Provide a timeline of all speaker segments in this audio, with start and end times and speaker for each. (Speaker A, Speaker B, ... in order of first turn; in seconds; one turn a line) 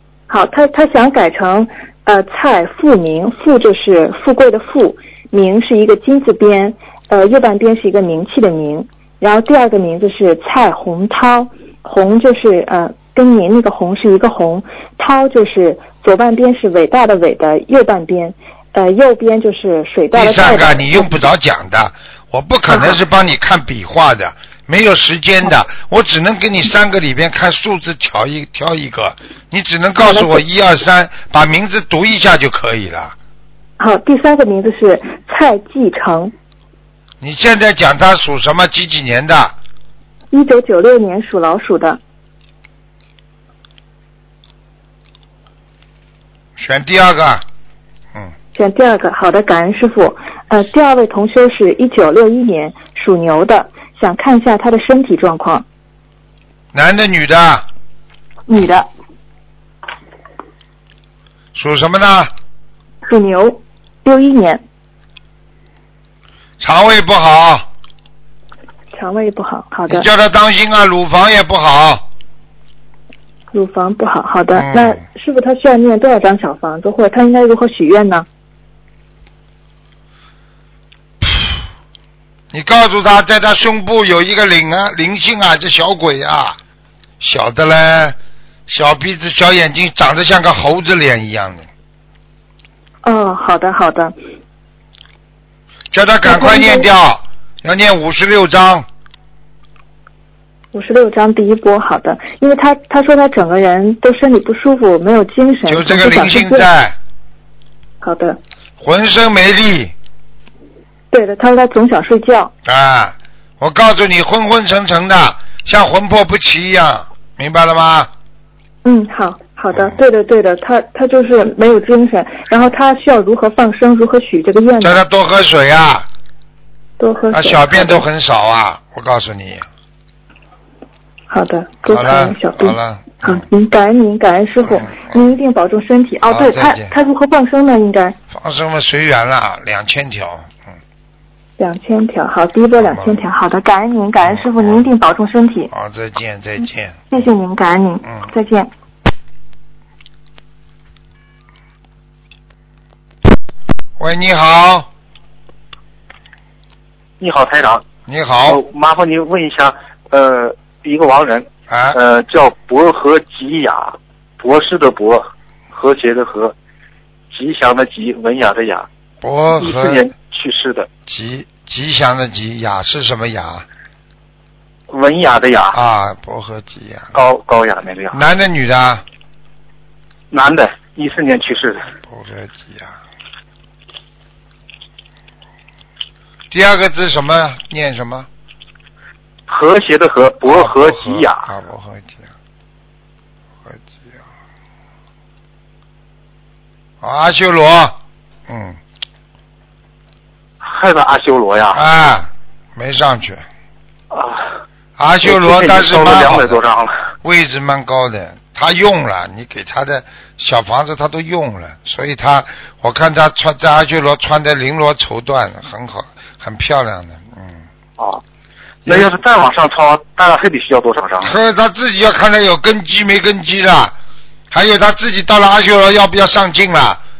Speaker A: 0.3-21.1
Speaker B: 20.1-33.1
Speaker A: 22.7-23.0
Speaker A: 30.0-30.4
Speaker A: 33.8-36.3
Speaker B: 37.2-39.5
Speaker A: 40.3-42.0
Speaker B: 46.6-47.4
Speaker A: 48.5-55.6
Speaker B: 56.7-57.6
Speaker A: 58.5-58.9
Speaker B: 61.5-62.3
Speaker A: 63.0-64.6
Speaker B: 66.6-67.7
Speaker A: 68.9-70.0
Speaker B: 69.9-72.0
Speaker A: 73.5-78.2
Speaker B: 74.5-75.0
Speaker B: 81.2-81.6
Speaker B: 82.5-86.6
Speaker B: 87.2-88.2
Speaker B: 88.7-91.7
Speaker A: 93.0-94.2
Speaker B: 95.9-98.9
Speaker A: 96.2-96.8
Speaker A: 100.7-106.7
Speaker B: 105.7-107.0
Speaker A: 108.0-108.4
Speaker B: 108.8-109.9
Speaker A: 111.1-112.5
Speaker B: 112.6-118.1
Speaker A: 118.8-125.0
Speaker B: 124.8-126.1
Speaker A: 127.0-128.0
Speaker B: 127.3-129.7
Speaker A: 131.3-138.2
Speaker B: 131.9-133.4
Speaker B: 134.7-135.1
Speaker B: 136.2-136.9
Speaker B: 138.3-140.6
Speaker A: 141.6-145.7
Speaker B: 142.8-143.2
Speaker B: 144.2-144.9
Speaker B: 145.7-147.2
Speaker A: 147.1-148.7
Speaker B: 154.0-154.9
Speaker C: 157.2-157.8
Speaker B: 158.1-158.6
Speaker C: 158.4-166.5
Speaker B: 161.7-162.0
Speaker C: 167.3-168.9
Speaker B: 169.2-170.1
Speaker C: 169.5-170.9
Speaker B: 171.1-173.7
Speaker C: 174.9-175.8
Speaker B: 175.7-177.2
Speaker C: 177.1-178.2
Speaker B: 178.1-179.0
Speaker C: 180.3-181.9
Speaker B: 182.0-182.9
Speaker B: 186.5-188.3
Speaker C: 189.5-191.4
Speaker B: 190.4-192.3
Speaker B: 193.7-194.2
Speaker B: 197.0-198.0
Speaker B: 198.5-198.8
Speaker C: 200.6-201.8
Speaker B: 201.7-203.4
Speaker C: 204.1-204.6
Speaker B: 205.0-206.6
Speaker C: 205.2-207.0
Speaker B: 207.2-217.6
Speaker C: 218.8-221.3
Speaker B: 221.2-223.9
Speaker B: 224.5-227.0